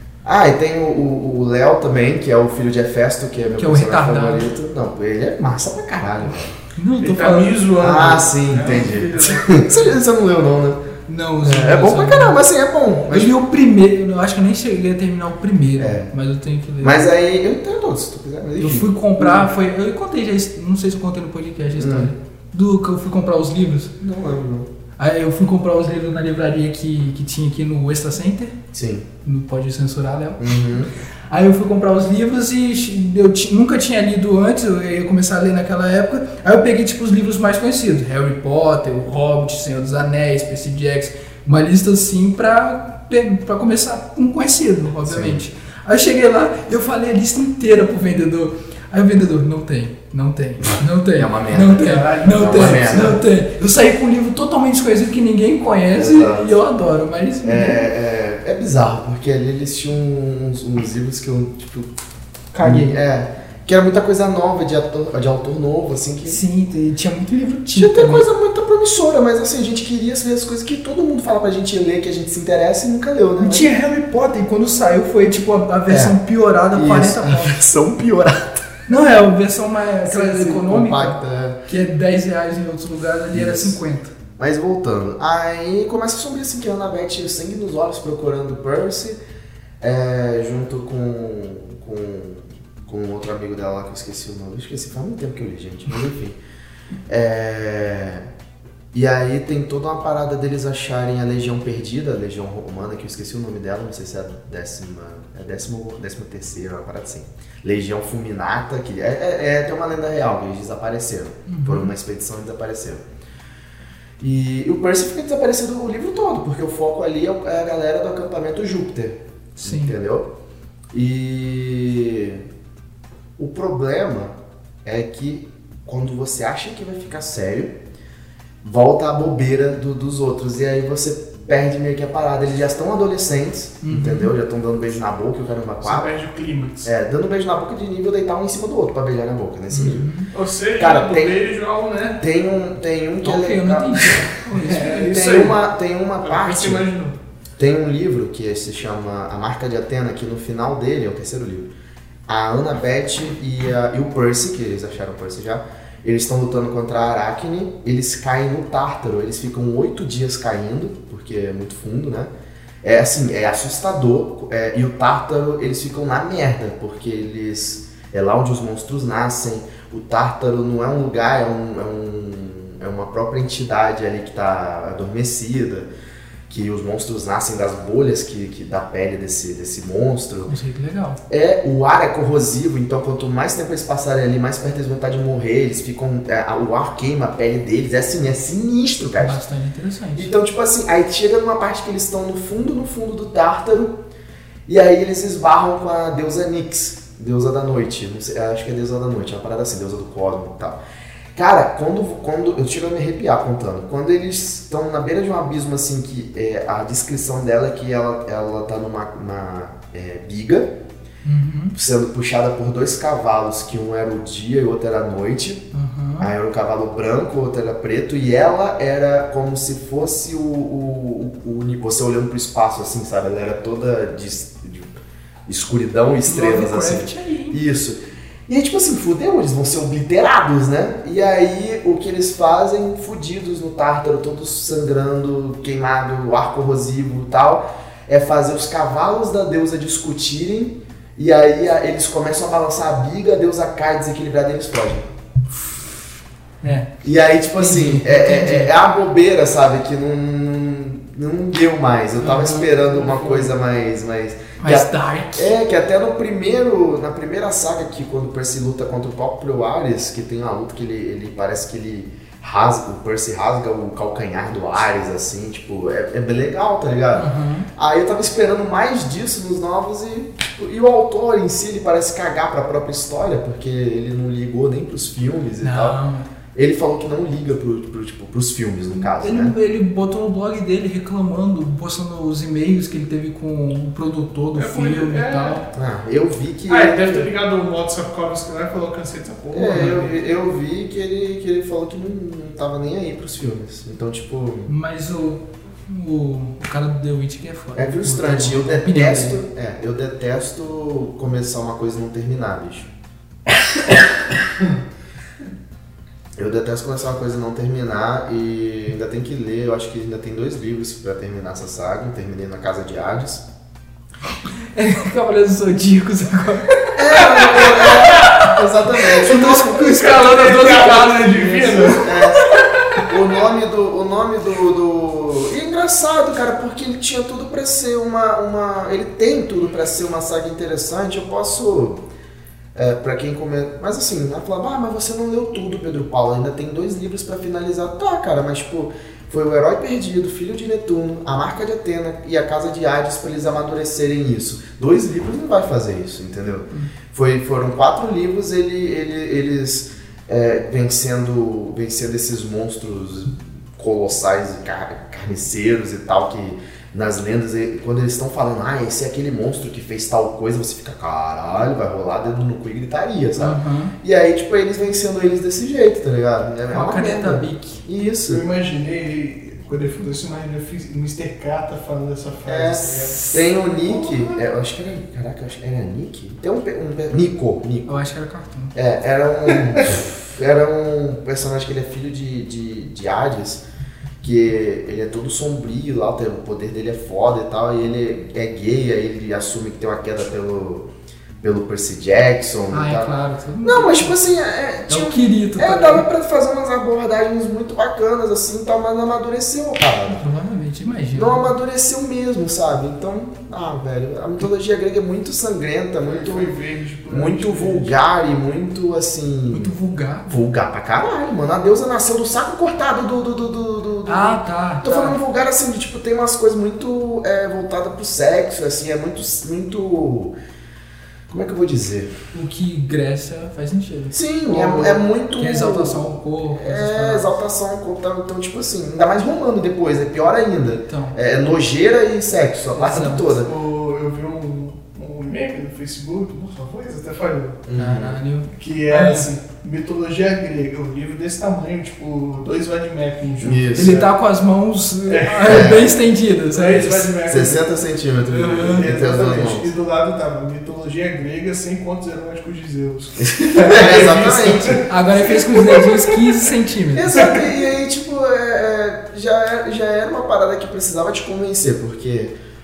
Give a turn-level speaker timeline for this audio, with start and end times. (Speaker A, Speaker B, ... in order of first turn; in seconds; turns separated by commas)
Speaker A: 0.2-6.5, Speaker B: 3.6-4.5, Speaker B: 6.8-7.6, Speaker C: 7.0-9.8, Speaker A: 7.8-10.8, Speaker B: 11.1-12.4, Speaker A: 11.4-13.3, Speaker B: 13.1-17.0, Speaker A: 15.8-16.1, Speaker A: 16.8-19.5, Speaker B: 18.6-23.9, Speaker A: 21.7-22.1, Speaker A: 24.0-24.7, Speaker B: 25.0-28.6, Speaker A: 28.7-29.1, Speaker B: 29.2-30.7, Speaker A: 30.4-30.9, Speaker B: 31.3-57.8, Speaker A: 45.0-45.4, Speaker A: 51.1-53.2, Speaker C: 51.8-53.2, Speaker A: 55.9-56.5, Speaker A: 57.4-61.9, Speaker B: 62.5-62.9, Speaker A: 62.6-66.4, Speaker B: 66.2-68.3, Speaker A: 67.7-73.7, Speaker B: 73.4-77.6, Speaker A: 75.9-76.2, Speaker A: 76.7-78.6, Speaker B: 78.9-84.1, Speaker A: 80.0-81.6, Speaker A: 83.3-83.8, Speaker A: 84.4-89.2, Speaker A: 89.8-96.4, Speaker A: 97.1-98.3, Speaker A: 98.9-113.0, Speaker B: 111.5-111.9, Speaker A: 114.2-120.3, Speaker B: 119.6-119.9, Speaker A: 120.9-122.5, Speaker A: 123.4-127.8, Speaker A: 128.6-136.1, Speaker B: 133.8-134.3, Speaker C: 135.8-136.9, Speaker A: 136.8-140.1, Speaker B: 139.7-140.3, Speaker C: 140.3-142.2, Speaker A: 140.8-141.4, Speaker A: 142.2-144.3, Speaker B: 143.2-145.2, Speaker C: 144.5-145.6, Speaker A: 145.1-146.9, Speaker C: 146.2-147.2, Speaker A: 147.6-151.7, Speaker A: 152.3-162.3, Speaker A: 162.8-175.9, Speaker A: 176.5-180.5, Speaker B: 180.4-181.2, Speaker A: 181.3-189.4, Speaker B: 189.2-190.3, Speaker A: 190.1-194.0, Speaker A: 194.7-200.8, Speaker A: 201.3-210.7, Speaker B: 211.2-211.8, Speaker A: 211.7-215.7, Speaker B: 215.7-216.3, Speaker A: 216.2-245.1, Speaker B: 226.2-227.6, Speaker B: 246.6-246.9, Speaker A: 247.0-276.0, Speaker B: 247.6-248.7, Speaker B: 252.2-252.7, Speaker C: 252.7-253.5, Speaker B: 254.6-255.5, Speaker B: 267.1-267.7, Speaker B: 275.6-276.3, Speaker A: 276.5-279.5, Speaker B: 279.0-285.7, Speaker C: 284.5-285.6, Speaker A: 285.7-287.3, Speaker C: 286.7-290.1, Speaker A: 289.5-294.7, Speaker B: 289.7-290.0, Speaker B: 294.6-299.4, Speaker A: 297.7-302.9, Speaker A: 306.4-313.4, Speaker B: 314.7-322.6, Speaker A: 316.9-319.8, Speaker C: 319.5-322.1, Speaker A: 322.0-322.5, Speaker A: 323.0-332.1, Speaker A: 332.7-368.4, Speaker B: 363.4-363.9, Speaker B: 366.7-367.8, Speaker C: 368.3-374.4, Speaker A: 372.4-378.0, Speaker B: 377.9-378.7, Speaker A: 378.7-383.6, Speaker C: 379.5-379.9, Speaker A: 384.2-390.9, Speaker A: 391.4-400.3, Speaker B: 392.7-394.1, Speaker B: 394.9-396.0, Speaker B: 400.1-401.5, Speaker A: 401.1-406.6, Speaker C: 406.0-407.9, Speaker A: 407.1-420.3, Speaker B: 409.5-410.4, Speaker B: 414.1-415.2, Speaker A: 421.3-422.1, Speaker B: 422.3-427.4, Speaker A: 424.1-433.5, Speaker C: 424.5-424.9, Speaker B: 430.9-431.2, Speaker B: 432.7-433.3, Speaker C: 433.4-437.6, Speaker A: 437.6-438.2, Speaker B: 437.7-439.3, Speaker C: 438.5-444.0, Speaker A: 443.4-444.1, Speaker B: 443.8-447.1, Speaker C: 445.1-445.9, Speaker A: 445.4-445.9, Speaker C: 446.5-447.7, Speaker A: 447.2-449.7, Speaker B: 448.3-448.9, Speaker C: 448.6-456.5, Speaker A: 453.2-454.9, Speaker B: 454.9-457.5, Speaker A: 456.9-462.3